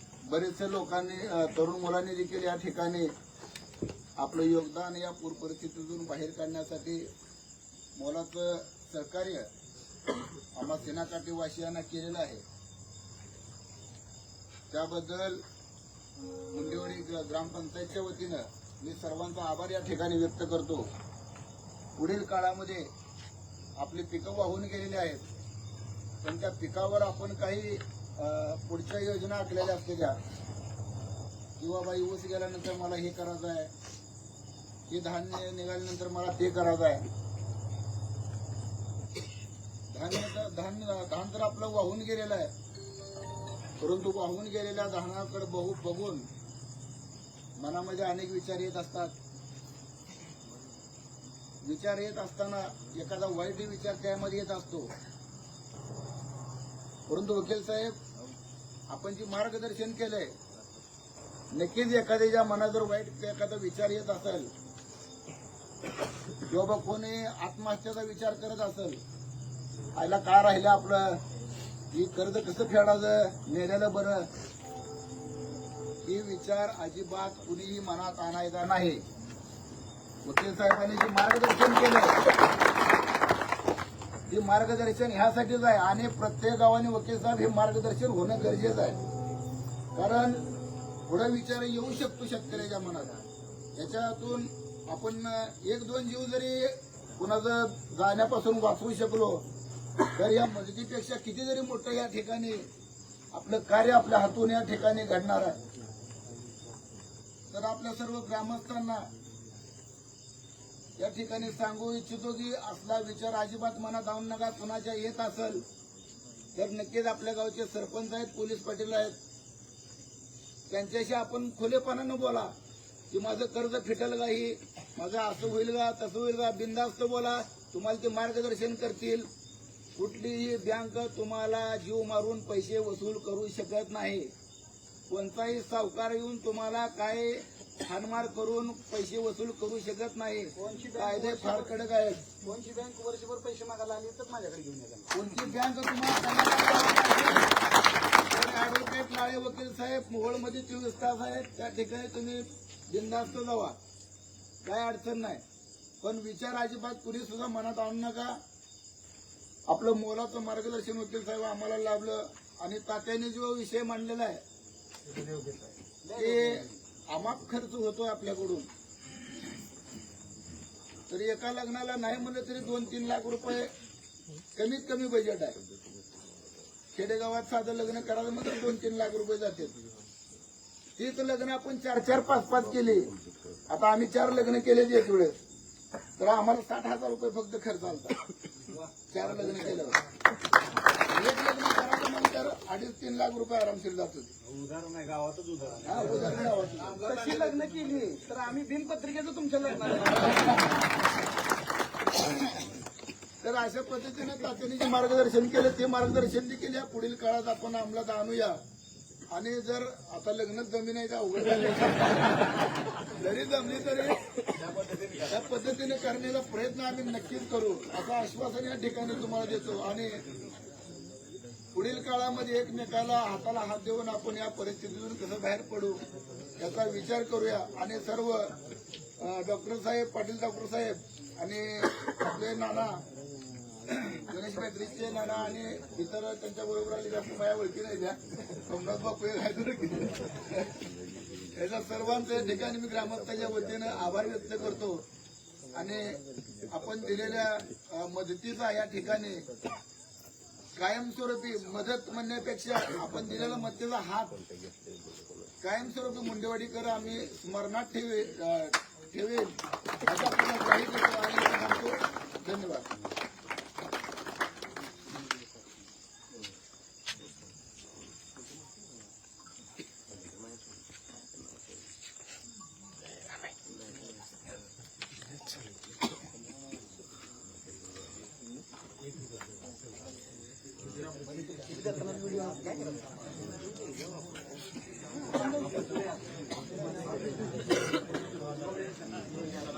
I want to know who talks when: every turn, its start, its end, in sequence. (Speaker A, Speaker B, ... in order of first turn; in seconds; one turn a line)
Speaker A: 0.3-3.1
Speaker A: 4.2-7.1
Speaker A: 8.0-9.5
Speaker A: 10.6-12.4
Speaker A: 14.7-15.4
Speaker A: 16.5-20.9
Speaker A: 22.0-22.9
Speaker A: 23.8-25.3
Speaker A: 26.2-30.2
Speaker A: 31.6-33.7
Speaker A: 34.9-37.0
Speaker A: 39.9-42.5
Speaker A: 43.8-46.3
Speaker A: 47.6-49.2
Speaker A: 51.6-54.9
Speaker A: 57.1-58.0
Speaker A: 58.9-60.4
Speaker A: 61.5-64.5
Speaker A: 66.5-69.0
Speaker A: 70.0-71.2
Speaker A: 71.9-74.3
Speaker A: 76.0-79.0
Speaker A: 80.2-82.2
Speaker A: 84.3-89.0
Speaker A: 90.0-90.5
Speaker A: 91.1-93.1
Speaker A: 93.8-99.5
Speaker A: 100.1-102.7
Speaker A: 103.3-105.6
Speaker A: 107.5-109.1
Speaker A: 111.0-115.7
Speaker A: 116.5-119.2
Speaker A: 120.7-122.5
Speaker A: 123.1-129.3
Speaker A: 130.0-134.3
Speaker A: 135.1-142.3
Speaker B: 140.6-141.8
Speaker B: 142.4-145.1
Speaker A: 145.1-147.5
Speaker A: 148.2-153.8
Speaker A: 154.6-155.4
Speaker A: 156.0-158.4
Speaker A: 159.7-164.4
Speaker C: 165.1-165.7
Speaker A: 166.2-168.7
Speaker B: 166.2-166.6
Speaker A: 171.1-173.7
Speaker A: 174.6-175.6
Speaker A: 176.9-179.8
Speaker A: 181.0-183.1
Speaker A: 183.7-185.3
Speaker A: 186.2-188.2
Speaker A: 189.1-190.0
Speaker A: 191.0-194.3
Speaker C: 194.5-197.0
Speaker A: 195.8-197.0
Speaker B: 197.0-200.7
Speaker A: 203.4-208.6
Speaker A: 209.3-214.2
Speaker C: 214.7-215.3
Speaker A: 215.3-220.2
Speaker A: 221.7-226.0
Speaker A: 226.6-228.6
Speaker A: 229.2-233.0
Speaker A: 233.9-240.7
Speaker A: 241.6-245.1
Speaker A: 245.7-249.4
Speaker A: 250.8-254.4
Speaker A: 255.6-259.5
Speaker A: 260.1-262.9
Speaker C: 281.4-283.1
Speaker C: 285.4-286.1
Speaker C: 287.0-287.3